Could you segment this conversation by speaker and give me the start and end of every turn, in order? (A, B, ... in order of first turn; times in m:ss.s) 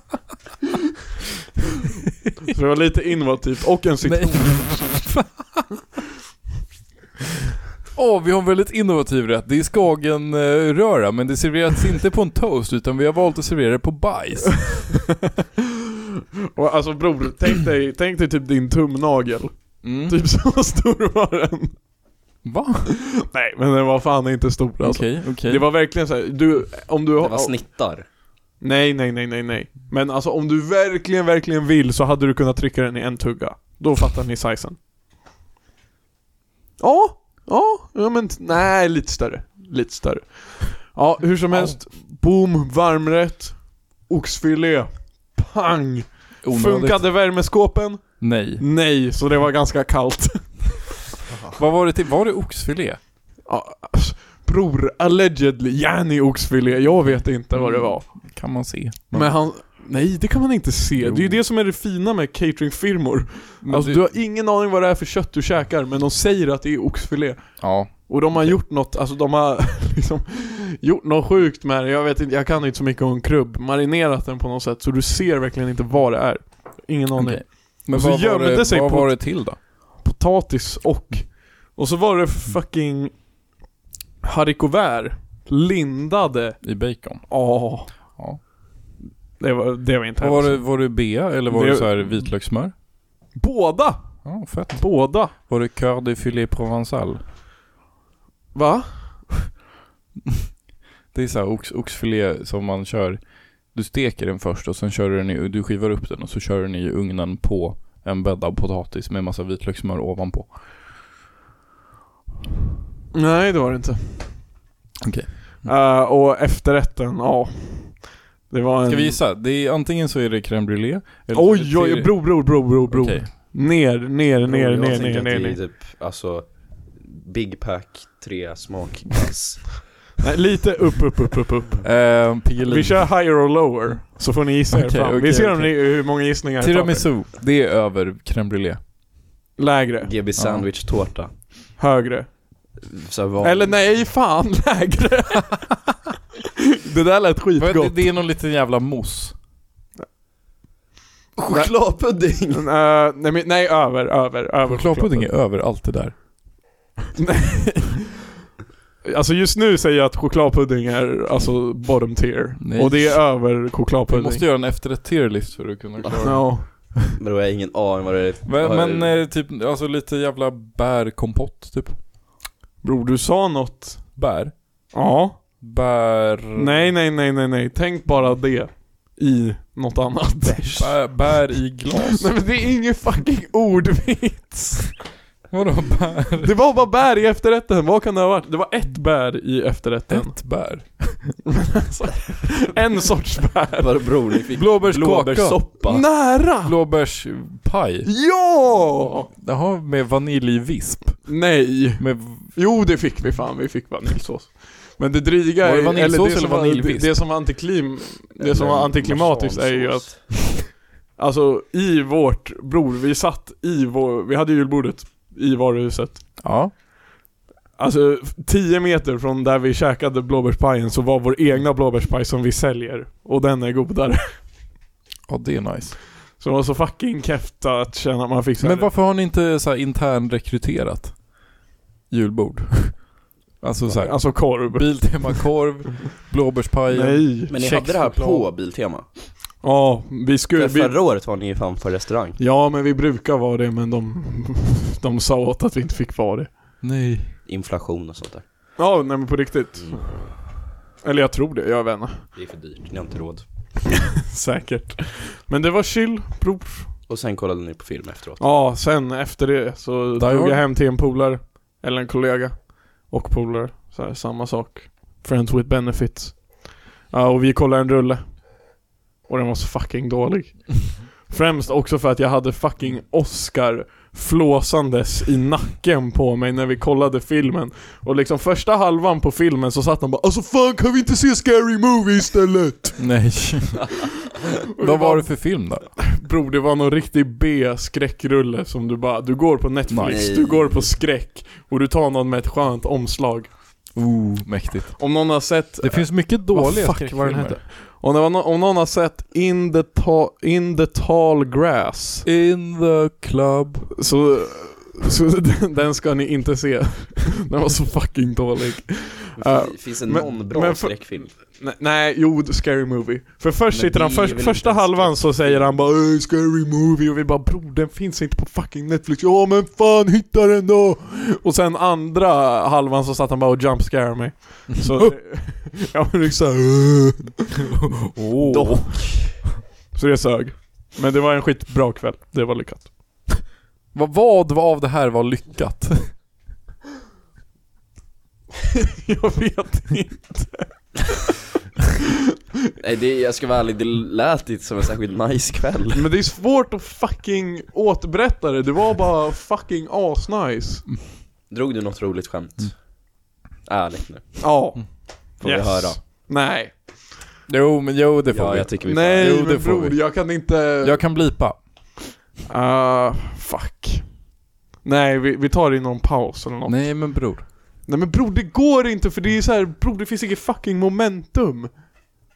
0:02.5-0:05.1 A
0:04.0-0:05.6 B
0:07.9-0:14.9 B
0:16.5-0:21.8 A
0:19.8-0:20.2 B
0:22.4-0:22.9 B
0:23.2-0:27.6 A
0:24.8-0:25.6 B
0:27.2-0:28.0 C
0:28.6-0:34.8 A
0:36.8-0:50.9 A
0:41.5-0:41.8 B
0:46.4-0:47.2 B
0:48.2-0:48.6 B
0:51.5-0:53.0 B
0:53.4-0:58.4 A
0:57.5-0:59.4 B
0:59.1-1:23.2 A
1:01.0-1:01.4 B
1:03.6-1:04.0 B
1:07.6-1:08.6 B
1:17.1-1:19.6 B
1:24.2-1:28.2 A
1:26.6-1:28.4 B
1:29.4-1:32.3 A
1:30.2-1:32.7 B
1:33.3-1:35.3 A
1:34.2-1:37.2 B
1:38.5-1:39.3 A
1:41.1-1:50.5 B
1:53.1-1:54.4 A
1:55.0-1:55.7 B
1:55.6-1:59.2 A
1:58.9-2:03.3 B
2:01.3-2:05.6 A
2:04.4-2:09.9 C
2:10.2-2:17.1 A
2:11.8-2:13.2 B
2:14.7-2:18.8 B
2:19.6-2:20.1 A
2:20.0-2:21.3 C
2:20.4-2:20.7 B
2:21.8-2:22.3 A
2:22.8-2:23.8 C
2:23.4-2:25.7 A
2:26.8-2:28.0 A
2:27.6-2:29.3 B
2:31.4-2:32.6 C
2:31.5-2:35.4 A
2:34.7-2:36.2 B
2:37.2-2:38.0 A
2:39.0-2:44.4 A
2:42.6-2:43.3 B
2:44.1-2:46.5 B
2:46.0-2:46.3 C
2:46.2-2:46.6 A
2:47.0-2:49.1 C
2:48.4-2:52.0 B
2:52.8-2:54.2 A
2:54.2-2:54.5 B
2:54.9-2:55.4 A
2:55.6-2:56.9 B
2:56.5-3:01.1 A
3:00.8-3:02.3 B
3:01.9-3:05.0 A
3:05.5-3:06.5 B
3:06.4-3:10.4 A
3:10.1-3:11.4 B
3:11.7-3:14.2 A
3:13.8-3:16.0 C
3:14.5-3:15.6 B
3:15.8-3:16.8 A
3:16.3-3:18.1 B
3:18.0-3:19.3 A
3:19.4-3:22.5 B
3:21.3-3:36.5 A
3:25.6-3:27.2 B
3:28.4-3:30.3 C
3:36.4-3:36.7 B
3:37.8-3:44.3 A
3:45.3-3:46.0 B
3:46.3-3:48.9 A
3:48.6-3:51.2 B
3:52.1-3:53.1 B
3:53.6-3:58.0 B
3:53.9-3:55.4 A
3:56.9-3:58.4 A
3:57.5-3:59.0 C
3:59.6-4:01.0 A
4:00.6-4:02.4 C
4:02.4-4:06.5 A
4:06.8-4:07.3 B
4:07.4-4:08.4 C
4:08.8-4:10.2 A
4:09.8-4:10.2 C
4:11.0-4:12.2 A
4:12.3-4:13.4 C
4:14.3-4:16.9 A
4:17.1-4:18.5 C
4:18.4-4:28.4 A
4:20.2-4:20.6 B
4:29.2-4:43.1 A
4:43.0-4:43.9 B
4:44.7-4:45.5 A
4:44.8-4:45.9 B
4:46.0-4:53.5 A
4:49.9-4:50.2 B
4:50.0-4:50.9 C
4:53.9-4:57.6 B
4:55.0-5:02.2 A
5:02.2-5:03.9 B
5:04.0-5:27.4 A
5:09.4-5:11.3 C
5:13.7-5:15.7 C
5:27.7-5:28.9 B
5:28.5-5:29.4 C
5:29.9-5:33.4 A
5:33.9-5:36.1 B
5:39.0-5:40.8 A
5:42.8-5:46.0 C
5:45.9-5:50.8 A
5:51.5-5:52.8 C
5:53.6-5:54.5 C
5:54.4-5:56.7 A
5:55.4-5:56.0 C
5:57.5-6:00.1 B
5:58.3-5:59.4 C
5:58.8-6:01.0 A
6:00.8-6:01.6 B
6:02.5-6:04.2 A
6:04.8-6:11.8 A
6:06.6-6:07.4 B